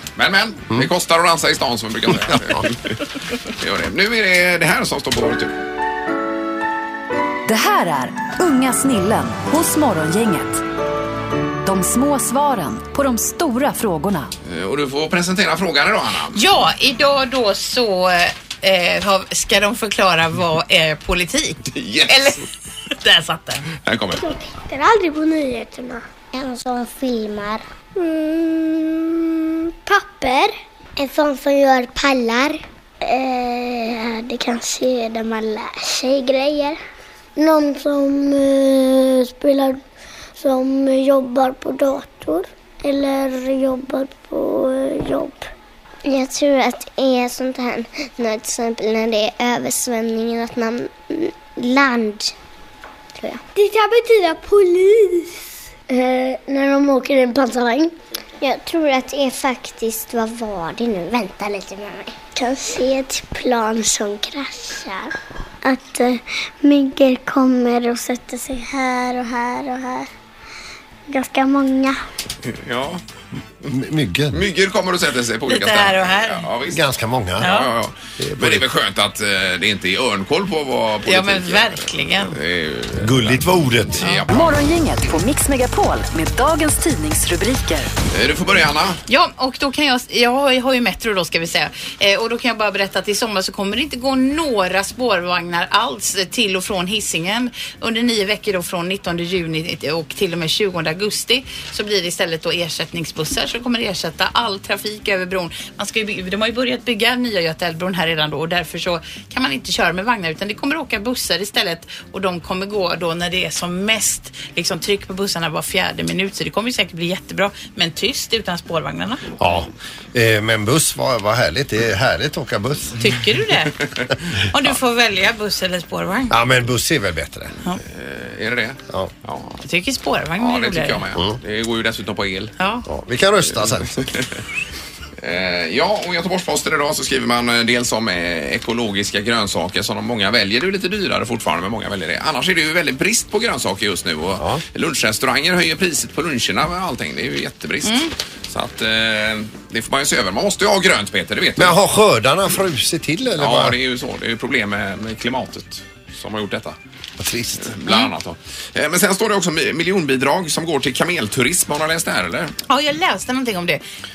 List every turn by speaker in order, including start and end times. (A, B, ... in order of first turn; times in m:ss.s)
0:00.2-0:03.0 A
0:02.2-0:02.6 B
0:03.6-0:05.6 A
0:07.5-0:10.6 C
0:11.6-0:14.3 C
0:14.5-0:16.4 A
0:16.3-0:23.7 D
0:21.7-0:22.4 A
0:23.8-0:24.3 A
0:24.2-0:36.8 E
0:37.4-0:39.8 E
0:40.4-0:45.4 E
0:46.0-0:52.3 E
0:53.2-0:55.4 E
0:55.9-1:05.1 E
1:05.6-1:10.1 E
1:11.1-1:12.0 E
1:12.4-1:13.0 A
1:13.7-1:14.5 B
1:14.3-1:16.8 A
1:15.5-1:16.5 D
1:16.7-1:17.6 B
1:17.4-1:17.7 D
1:17.4-1:23.4 A
1:18.2-1:18.7 B
1:21.1-1:22.4 D
1:23.0-1:24.1 B
1:24.0-1:24.5 A
1:24.3-1:27.9 C
1:28.1-1:29.0 A
1:29.1-1:59.2 D
1:59.4-2:03.0 B
2:03.0-2:03.8 D
2:04.5-2:06.4 D
2:06.3-2:07.6 B
2:07.8-2:09.6 A
2:09.6-2:11.0 D
2:10.4-2:12.5 A
2:11.1-2:11.4 B
2:12.6-2:12.8 D
2:12.9-2:14.0 B
2:14.0-2:14.3 A
2:15.2-2:31.8 A
2:27.8-2:28.1 D
2:31.6-2:33.8 B
2:33.4-2:36.8 A
2:37.2-2:37.8 B
2:37.6-2:42.5 A
2:42.7-2:43.8 D